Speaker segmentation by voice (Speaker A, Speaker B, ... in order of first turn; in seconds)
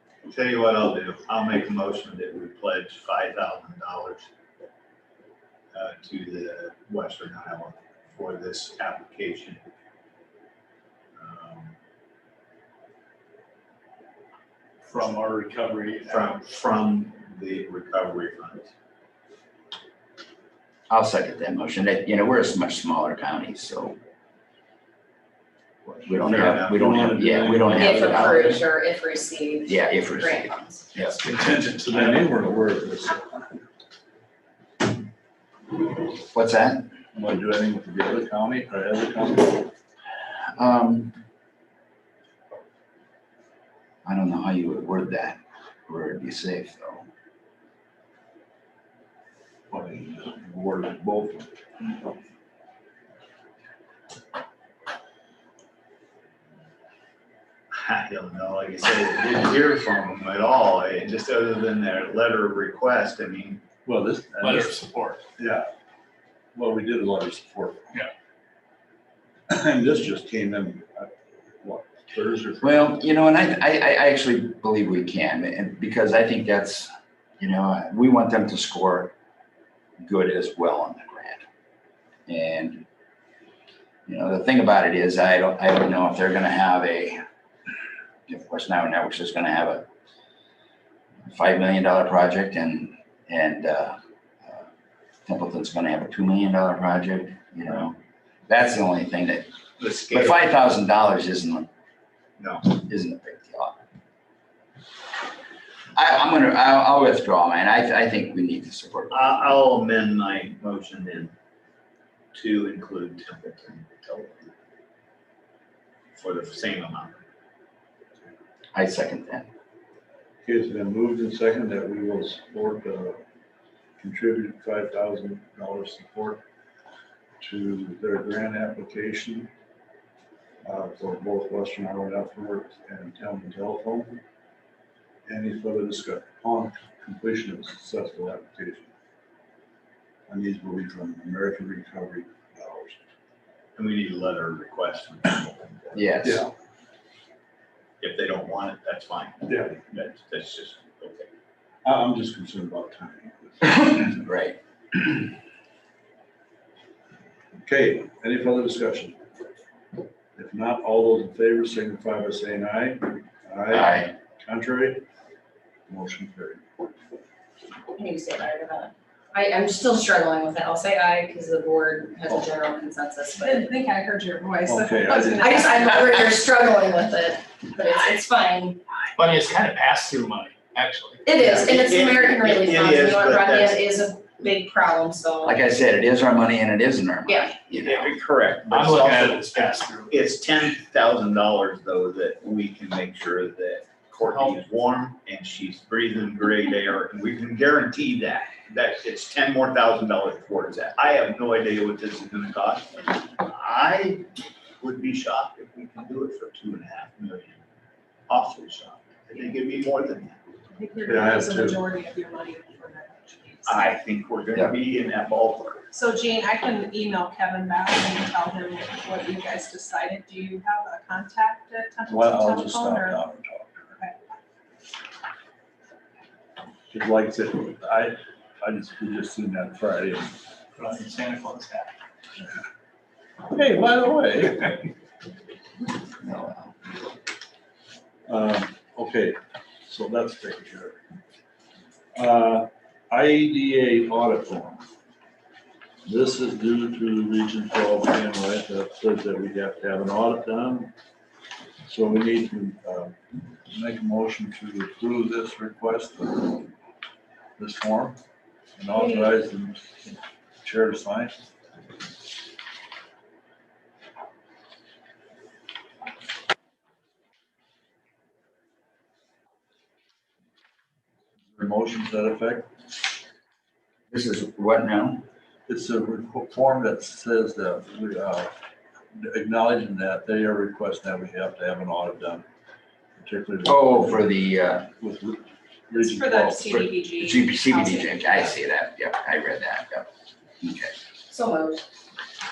Speaker A: 0.2-4.3, 5.7-9.6, 11.1-11.7, 16.1-18.7, 26.1-26.9, 57.7-63.6, 99.8-100.4, 102.4-102.7, 109.1-111.3, 112.3-114.5, 116.1-117.2, 143.8-146.2, 148.0-151.3, 181.3-183.8, 187.7-204.3, 204.8-207.6, 208.3-210.4, 213.7-215.9
Speaker B: 14.8-16.4, 31.1-32.2, 64.4-65.2, 179.1-181.2, 188.7-190.1, 230.8-231.9
Speaker C: 20.9-24.0, 26.0-28.4, 29.6-31.1, 36.3-36.9, 40.5-41.1, 44.0-47.0, 72.6-79.1, 80.0-81.4, 82.3-82.8, 84.1-87.2, 88.3-89.8, 91.3-94.7, 95.2-99.5, 100.1-101.7, 102.7-103.8, 105.9-109.5, 118.7-119.5, 145.9-146.4, 153.6-155.3, 163.7-164.1, 185.4-188.2, 236.2-236.7, 274.1-275.2, 283.6-284.9, 286.5-290.1, 290.6-290.9
Speaker D: 26.3-28.6, 31.4-33.5, 37.1-39.7, 49.7-51.5, 63.8-64.7, 65.4-65.7, 66.5-67.9, 69.5-72.9, 120.4-123.2, 124.0-126.4, 127.4-129.5, 130.6-134.2, 135.3-138.9, 140.3-143.1, 146.2-146.5, 149.5-149.8, 151.8-154.2, 157.6-159.2, 160.3-165.0, 165.9-166.7, 174.6-175.7, 211.0-211.8, 222.1-224.0, 226.9-230.3, 233.5-234.8, 238.3-241.0, 242.1-244.8, 246.0-250.9, 251.8-253.2, 253.7-256.7, 257.6-258.2, 258.8-260.1, 260.6-261.3, 271.5-272.7, 275.7-278.5, 279.1-282.4, 283.1-284.4, 285.0-286.6
Speaker E: 27.8-30.9, 167.9-173.7, 175.4-178.8, 181.2-185.6, 187.2-187.5, 291.3-291.9
Speaker F: 173.4-176.3, 210.7-213.9, 215.9-223.2, 285.9-288.5